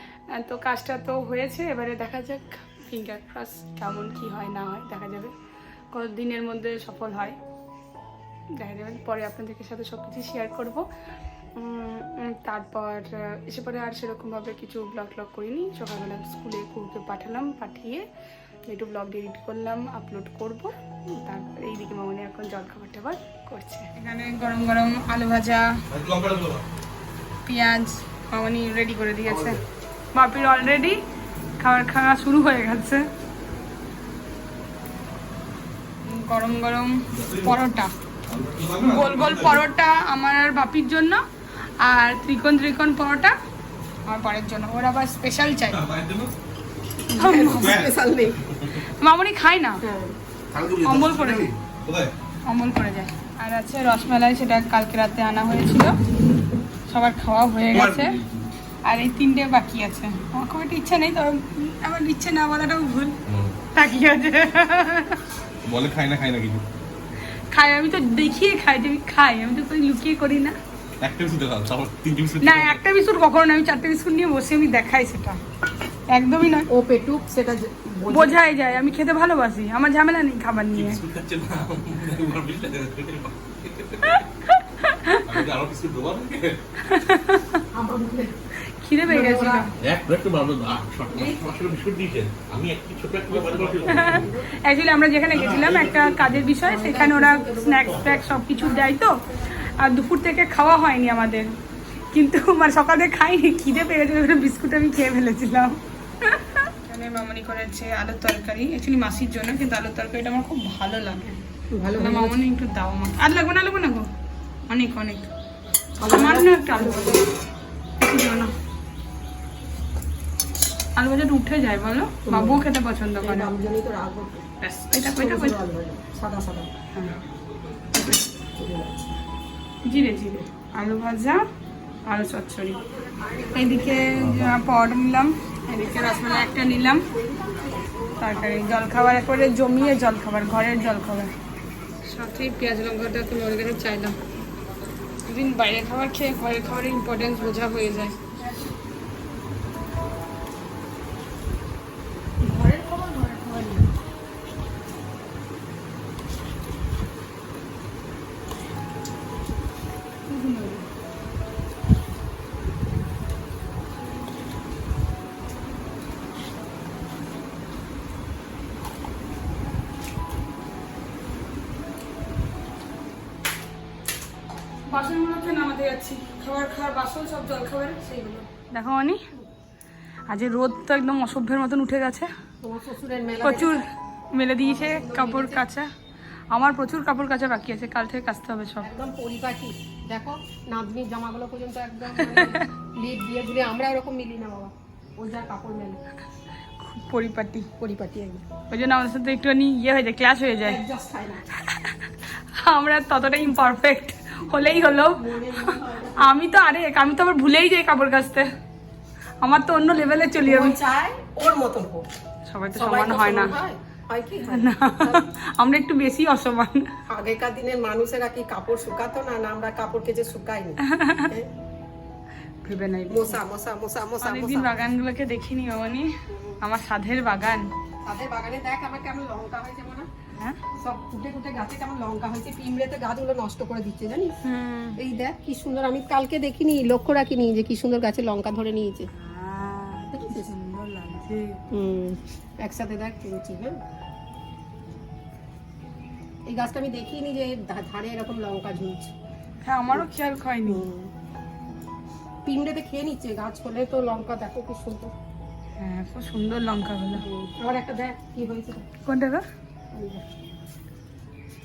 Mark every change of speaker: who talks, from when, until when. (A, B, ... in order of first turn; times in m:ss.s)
0:00.3-0:05.3 A
0:05.9-0:07.4 A
0:08.6-0:10.9 A
0:11.6-0:18.0 A
0:18.7-0:25.8 A
0:25.9-0:26.6 B
0:27.4-0:29.6 A
0:29.2-0:29.6 B
0:30.2-0:31.0 A
0:31.6-0:33.1 A
0:36.0-0:37.9 A
0:37.1-0:37.6 B
0:38.3-0:39.6 B
0:38.9-0:41.2 A
0:41.8-0:43.4 A
0:44.1-0:45.8 A
0:45.7-0:46.3 B
0:47.1-0:47.8 A
0:47.1-0:48.5 C
0:47.5-0:47.9 B
0:48.5-0:48.8 B
0:48.7-0:49.8 A
0:49.8-0:50.2 C
0:50.5-0:52.1 B
0:50.8-0:51.5 A
0:52.4-0:56.0 A
0:56.9-0:58.2 A
0:57.7-0:58.5 B
0:58.8-1:03.2 A
1:03.3-1:03.6 B
1:03.7-1:05.2 A
1:05.6-1:06.6 B
1:07.5-1:10.6 A
1:11.0-1:12.8 B
1:12.4-1:15.4 A
1:16.1-1:16.7 A
1:16.7-1:18.8 C
1:18.1-1:21.0 A
1:20.7-1:24.3 B
1:24.0-1:25.2 A
1:25.1-1:26.6 B
1:26.8-1:27.6 A
1:27.7-1:28.3 C
1:28.6-1:29.7 A
1:29.1-1:29.7 C
1:29.8-1:34.3 B
1:31.1-1:31.4 C
1:33.3-1:34.5 C
1:33.9-1:39.2 A
1:35.3-1:36.4 B
1:36.6-1:39.0 C
1:39.7-1:41.5 A
1:42.1-1:51.4 A
1:51.7-1:52.4 C
1:52.0-1:54.1 A
1:54.7-1:55.3 A
1:56.0-1:57.2 C
1:56.1-1:57.2 A
1:58.0-1:58.5 A
2:01.0-2:03.5 A
2:02.2-2:02.7 C
2:03.2-2:04.5 C
2:04.6-2:05.6 A
2:05.1-2:06.7 C
2:06.9-2:07.2 A
2:07.3-2:07.8 B
2:08.0-2:09.1 C
2:09.8-2:11.4 A
2:12.1-2:12.8 A
2:12.7-2:14.2 C
2:13.6-2:17.1 A
2:14.2-2:14.6 B
2:15.7-2:20.2 C
2:18.2-2:21.3 A
2:22.1-2:24.2 A
2:25.3-2:28.5 A
2:32.4-2:33.9 A
2:40.3-2:40.9 A
2:54.9-2:59.2 A
3:00.3-3:02.3 A
3:02.6-3:03.8 C
3:03.4-3:05.9 A
3:04.6-3:05.6 C
3:06.5-3:08.9 A
3:08.8-3:16.0 C
3:12.3-3:12.7 A
3:16.8-3:17.7 A
3:17.8-3:18.4 C
3:18.7-3:20.8 A
3:20.6-3:21.5 C
3:21.6-3:28.5 A
3:23.5-3:23.8 C
3:24.5-3:26.3 C
3:29.4-3:30.8 A
3:30.4-3:32.1 C
3:32.5-3:33.6 A
3:32.8-3:35.3 C
3:34.5-3:36.9 A
3:37.1-3:41.5 C
3:40.9-3:41.3 A
3:42.6-3:43.4 A
3:43.1-3:44.9 C
3:44.2-3:47.7 A
3:46.3-3:46.6 C
3:48.0-3:50.1 C
3:50.3-3:50.6 A
3:50.8-3:54.3 C
3:54.4-3:55.0 A
3:55.0-3:59.1 C
3:59.1-4:01.6 A
4:00.1-4:00.5 C
4:01.7-4:03.8 C
4:06.5-4:09.1 C
4:09.6-4:10.9 A
4:10.7-4:11.1 C
4:12.4-4:15.1 C
4:15.8-4:17.2 A
4:17.2-4:18.9 C
4:19.0-4:19.4 A
4:19.9-4:20.2 C